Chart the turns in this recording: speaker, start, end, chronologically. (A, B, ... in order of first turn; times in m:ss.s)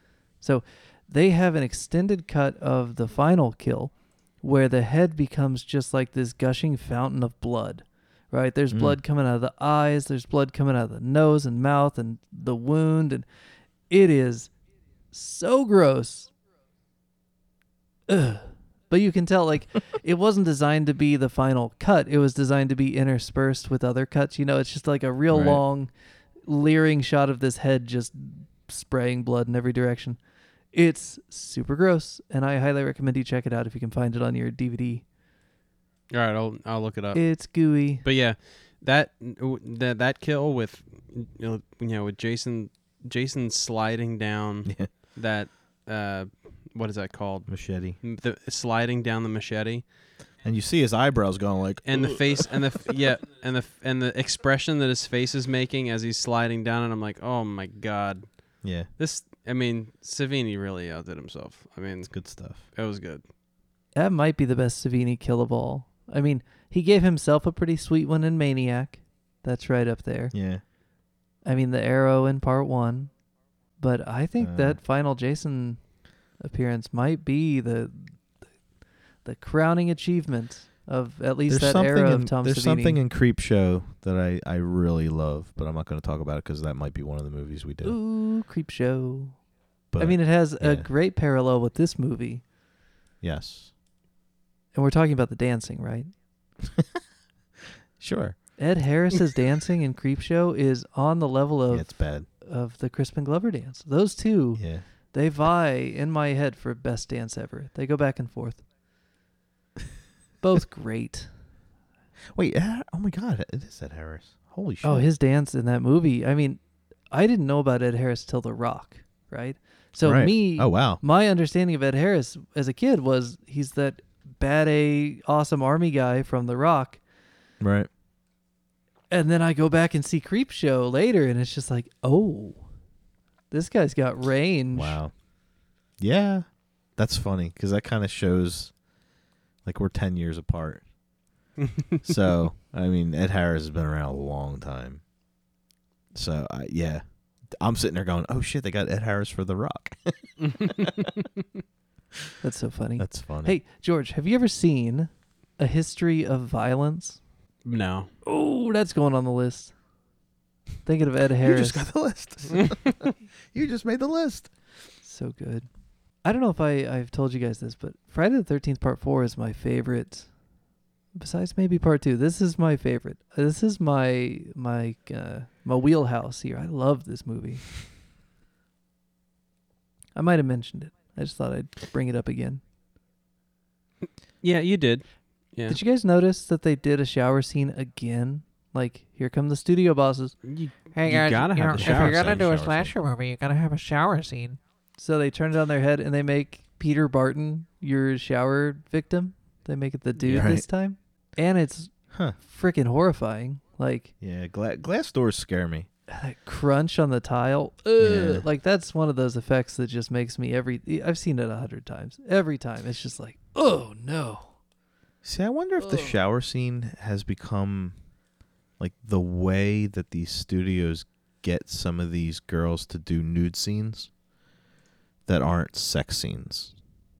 0:00.4-0:13.2 A
0:08.7-0:09.0 B
0:13.9-0:14.5 A
0:15.1-0:16.3 A
0:18.1-0:25.9 A
0:25.3-0:25.6 B
0:26.4-0:30.2 A
0:30.7-0:35.0 A
0:36.1-0:37.4 C
0:37.1-0:38.0 A
0:38.0-0:49.8 C
0:44.6-0:44.9 B
0:47.5-0:48.0 B
0:50.4-0:52.4 B
0:51.8-1:03.2 C
0:58.6-0:58.9 B
1:02.1-1:02.6 B
1:03.9-1:10.3 A
1:10.3-1:10.6 B
1:11.4-1:13.1 A
1:13.8-1:15.8 A
1:14.4-1:14.8 B
1:16.4-1:18.2 A
1:19.2-1:23.0 A
1:21.5-1:28.0 B
1:27.8-1:29.4 A
1:29.9-1:30.9 B
1:30.0-1:32.4 A
1:33.2-1:33.7 B
1:34.7-1:36.1 A
1:36.6-1:37.0 B
1:38.0-1:38.4 B
1:38.6-1:48.6 A
1:41.7-1:42.3 B
1:44.6-1:44.8 B
1:50.4-1:51.3 A
1:52.3-1:55.1 B
1:54.8-1:56.6 A
1:57.1-2:07.0 A
2:00.0-2:01.0 B
2:07.6-2:07.9 B
2:09.1-2:12.7 A
2:13.5-2:15.0 A
2:14.7-2:15.1 B
2:16.0-2:18.8 B
2:19.6-2:20.8 B
2:22.0-2:25.0 B
2:26.1-2:31.1 B
2:32.4-2:37.2 A
2:33.0-2:33.6 B
2:37.6-2:38.1 C
2:38.2-2:39.7 A
2:40.8-2:41.9 A
2:41.4-2:44.5 B
2:45.0-2:45.7 A
2:46.2-2:50.3 A
2:51.1-2:57.7 A
3:00.1-3:02.6 A
3:04.4-3:05.8 C
3:05.7-3:10.3 A
3:10.4-3:12.5 C
3:10.9-3:14.6 D
3:11.7-3:12.9 B
3:15.0-3:24.1 A
3:20.2-3:20.5 C
3:20.3-3:20.7 B
3:22.1-3:22.4 B
3:24.2-3:25.9 B
3:26.1-3:34.6 A
3:28.0-3:28.4 B
3:35.2-3:38.0 B
3:35.8-3:36.2 A
3:38.8-3:44.1 B
3:45.2-3:46.8 B